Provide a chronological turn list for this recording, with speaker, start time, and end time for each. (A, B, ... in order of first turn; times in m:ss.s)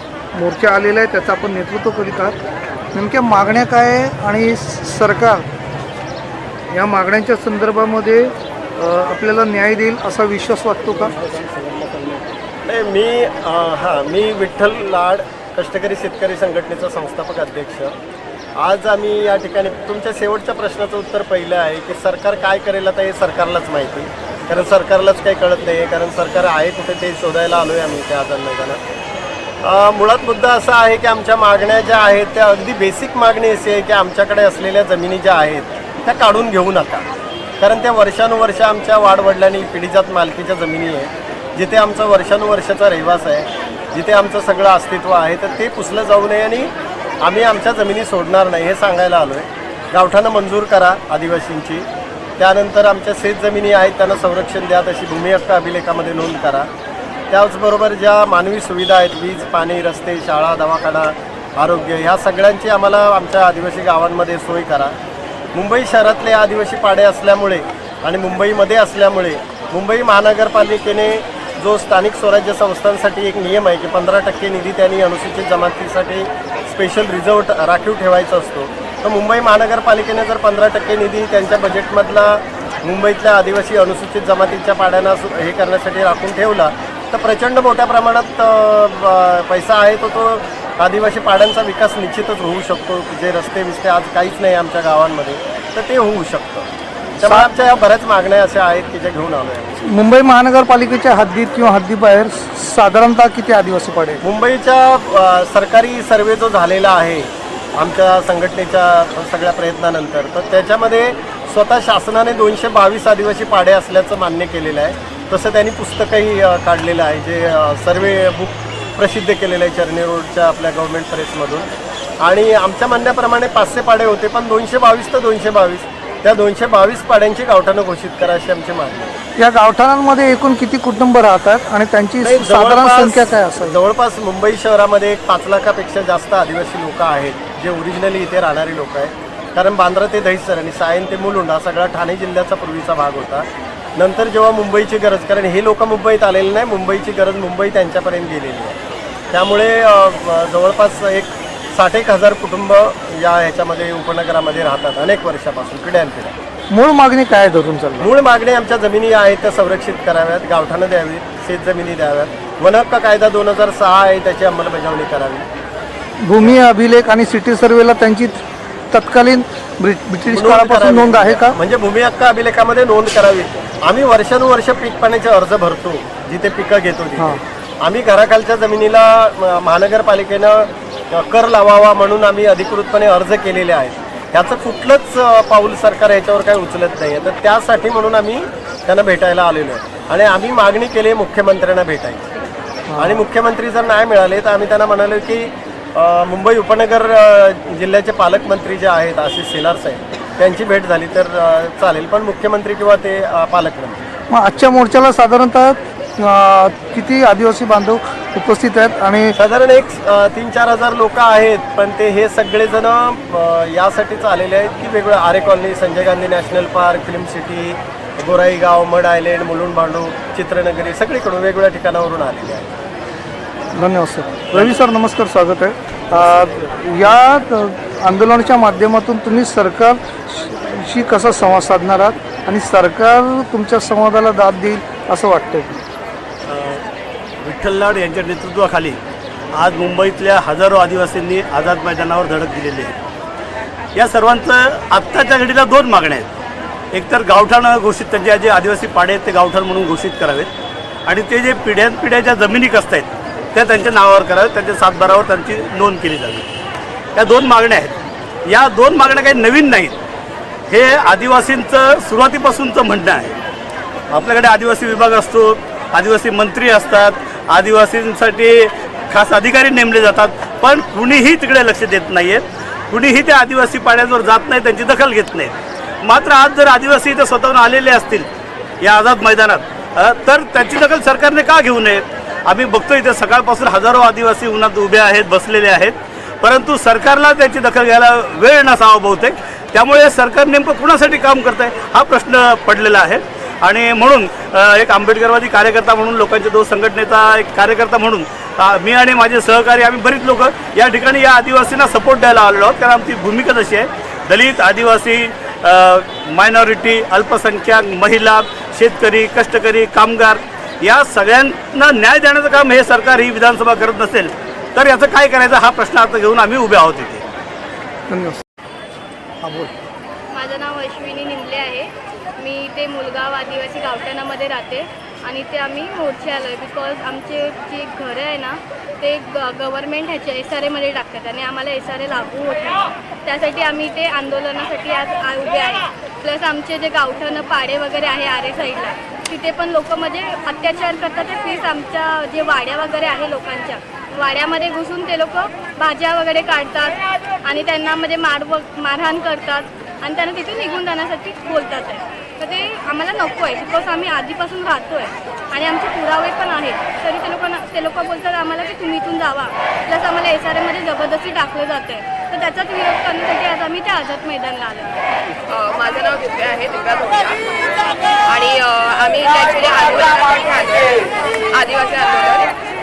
0:00.4-0:02.4 A
0:02.9-0:05.4 A
0:06.7-0:11.2 A
0:12.6-0:17.9 B
0:18.6-0:28.8 B
0:29.6-0:37.1 B
0:37.6-0:51.8 B
0:52.4-0:56.7 B
0:57.3-1:05.0 B
1:05.5-1:36.7 B
1:37.2-1:39.8 B
1:39.9-1:44.2 A
1:44.2-2:01.7 B
2:02.2-2:09.2 B
2:09.4-2:13.8 A
2:12.2-2:23.5 B
2:24.0-2:28.8 B
2:29.3-2:36.4 B
2:36.7-2:38.1 A
2:38.0-2:45.5 B
2:46.2-2:51.6 A
2:50.3-3:12.3 B
3:12.9-3:13.2 A
3:13.0-3:24.0 B
3:24.3-3:29.4 A
3:29.4-3:42.8 B
3:43.8-3:55.8 A
3:56.5-3:56.8 C
3:57.4-3:59.0 C
3:59.5-4:03.0 C
4:04.0-4:06.3 C
4:06.9-4:10.5 C
4:11.1-4:16.5 C
4:17.2-4:18.0 C
4:18.5-4:20.0 C
4:20.7-4:23.4 C
4:24.1-4:38.3 C
4:38.8-5:17.2 C
5:18.1-5:18.4 A
5:19.4-5:19.7 A
5:20.3-6:05.1 D
6:05.5-6:07.4 E
6:08.3-6:12.5 E